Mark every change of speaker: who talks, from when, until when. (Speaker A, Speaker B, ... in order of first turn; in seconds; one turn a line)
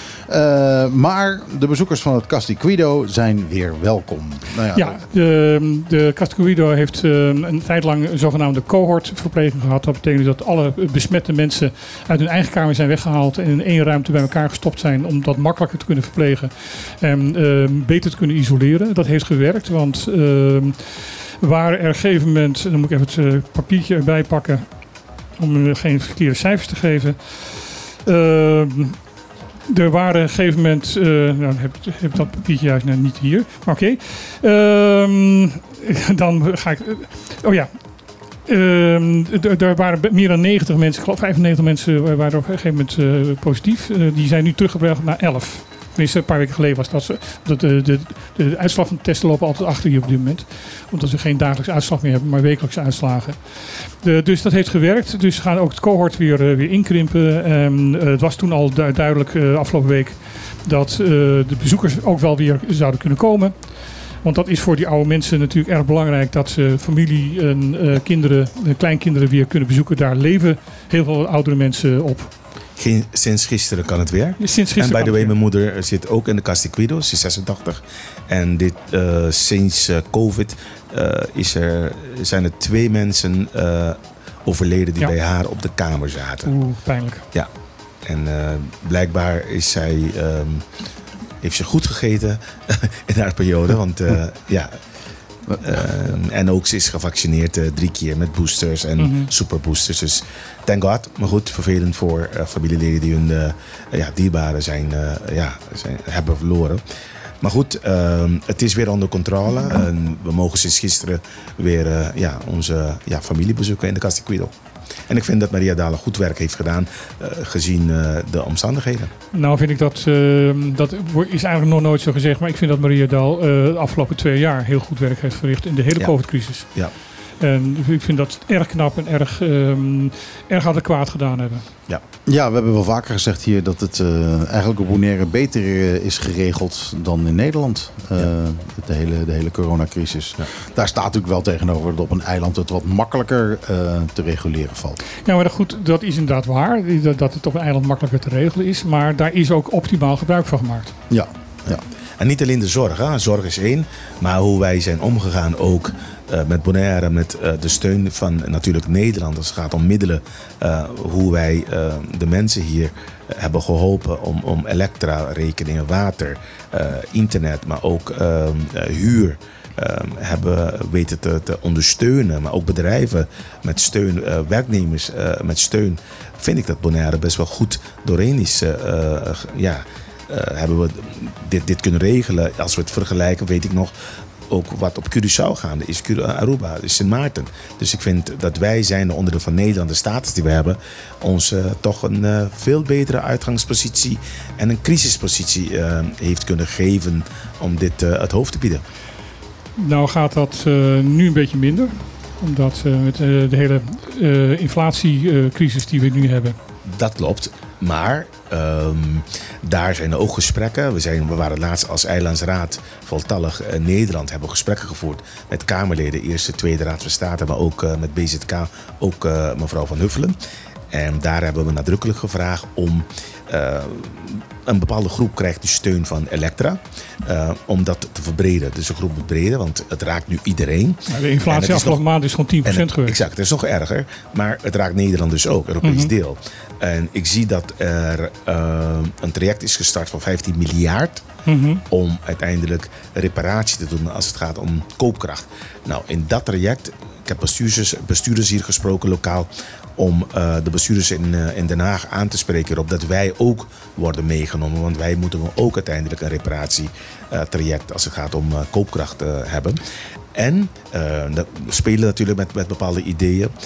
Speaker A: 0.3-5.0
Speaker B: 4.7-29.0
Speaker B: 29.7-37.7
Speaker B: 38.5-72.3
Speaker C: 72.8-86.5
Speaker B: 74.4-75.3
Speaker B: 86.4-87.2
Speaker C: 88.0-90.6
Speaker C: 91.4-94.7
Speaker C: 95.6-106.8
Speaker B: 99.0-99.3
Speaker C: 107.4-114.5
Speaker C: 115.1-119.1
Speaker B: 119.3-126.7
Speaker C: 126.6-126.9
Speaker B: 127.4-131.6
Speaker A: 132.3-145.0
Speaker B: 145.2-150.9
Speaker A: 151.1-151.8
Speaker C: 151.7-183.9
Speaker C: 184.5-198.8
Speaker B: 199.8-206.6
Speaker C: 206.9-220.4
Speaker C: 220.9-232.1
Speaker B: 231.1-233.2
Speaker C: 232.6-241.2
Speaker B: 235.8-236.1
Speaker B: 241.4-241.8
Speaker C: 241.9-259.8
Speaker C: 260.3-263.5